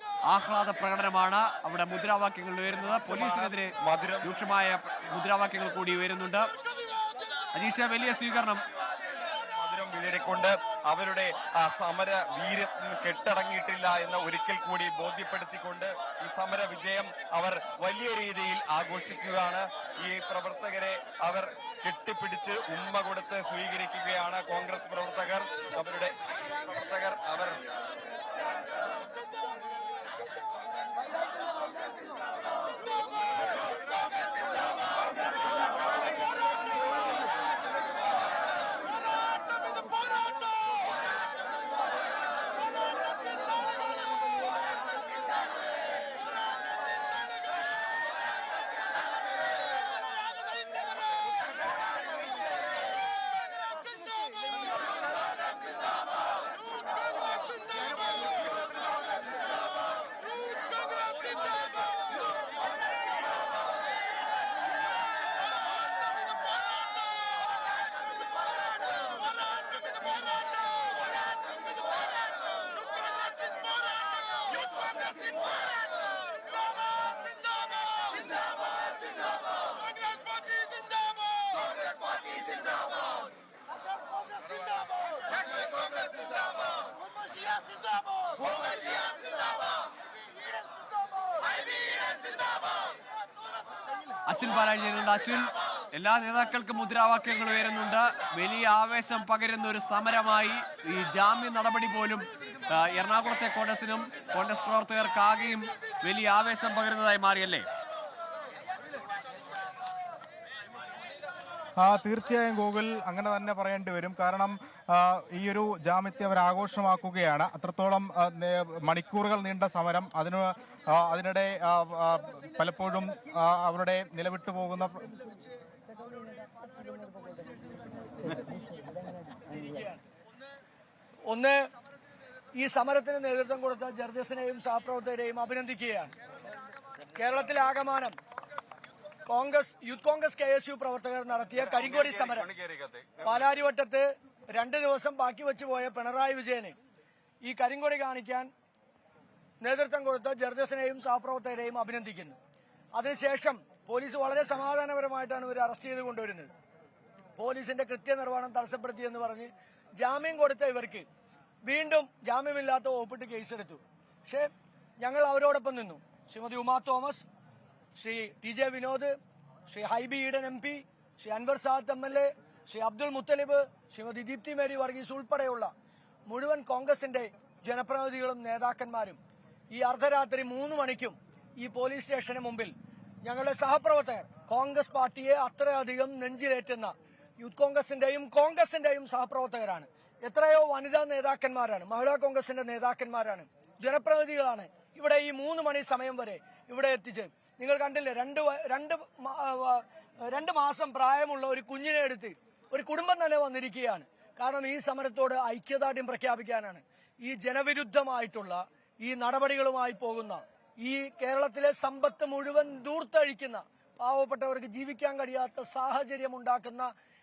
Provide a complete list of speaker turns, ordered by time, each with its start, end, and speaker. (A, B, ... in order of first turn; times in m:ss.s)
0:00.3-0:06.5 A
0:02.7-0:04.3 B
0:07.5-0:08.6 A
0:09.6-0:27.6 B
1:20.4-1:21.0 A
1:34.2-1:47.6 A
1:51.8-2:05.1 C
2:08.4-2:08.6 D
2:09.4-2:10.0 D
2:11.3-2:11.7 D
2:12.6-2:16.1 D
2:17.1-2:18.2 D
2:19.2-2:22.5 D
2:21.8-2:23.2 B
2:23.2-2:26.8 D
2:27.4-2:28.5 D
2:29.6-2:32.4 D
2:32.9-2:36.5 D
2:37.4-2:41.0 D
2:41.6-2:44.5 D
2:45.0-2:47.2 D
2:47.9-2:49.1 D
2:49.7-2:55.7 D
2:56.3-2:59.2 D
2:59.7-3:36.9 D